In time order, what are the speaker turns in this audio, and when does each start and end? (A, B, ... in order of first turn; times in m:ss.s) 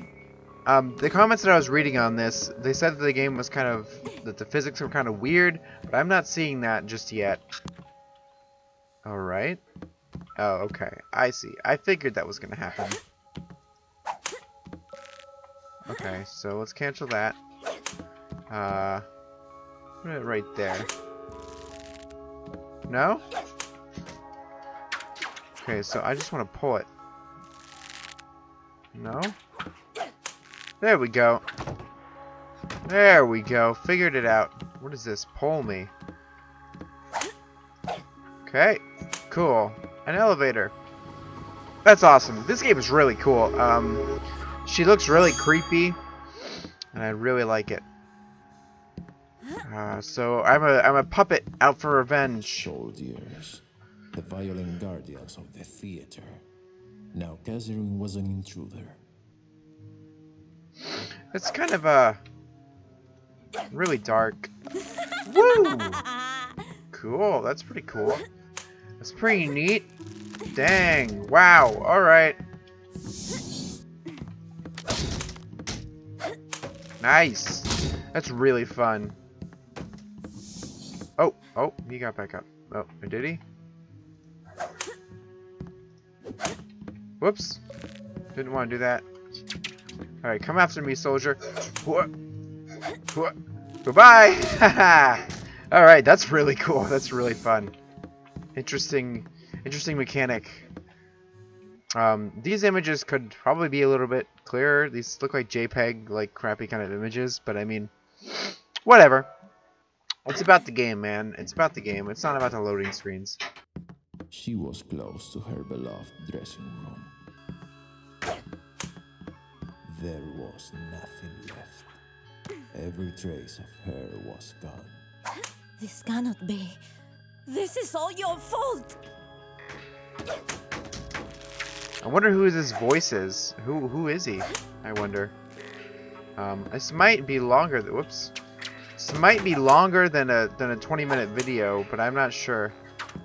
0:00.6-0:07.4 A
0:09.0-0:09.6 A
0:10.4-0:13.0 A
0:15.9-0:17.4 A
0:18.5-0:19.0 A
0:20.0-0:20.9 A
0:22.9-0:23.2 A
0:25.6-0:26.9 A
0:28.9-0:29.4 A
0:30.8-0:31.4 A
0:32.8-0:35.9 A
0:38.4-0:40.7 A
0:41.8-0:44.0 A
0:44.6-0:46.0 A
0:46.9-0:47.8 A
0:49.6-0:52.7 A
0:52.5-0:56.4 B
0:57.1-0:59.0 B
1:01.3-1:02.2 A
1:03.7-1:04.5 A
1:05.2-1:06.0 A
1:06.9-1:08.2 A
1:09.0-1:09.9 A
1:10.5-1:12.4 A
1:17.0-1:19.1 A
1:21.2-1:23.4 A
1:27.2-1:27.6 A
1:28.3-1:29.0 A
1:30.2-1:32.1 A
1:33.1-1:37.7 A
1:38.5-1:40.7 A
1:42.0-1:49.3 A
1:50.2-1:53.4 A
1:54.3-1:57.1 B
1:59.8-2:01.9 B
2:02.7-2:05.0 B
2:05.8-2:06.8 C
2:07.4-2:09.0 C
2:12.0-2:15.3 A
2:16.4-2:18.3 A
2:19.0-2:22.7 A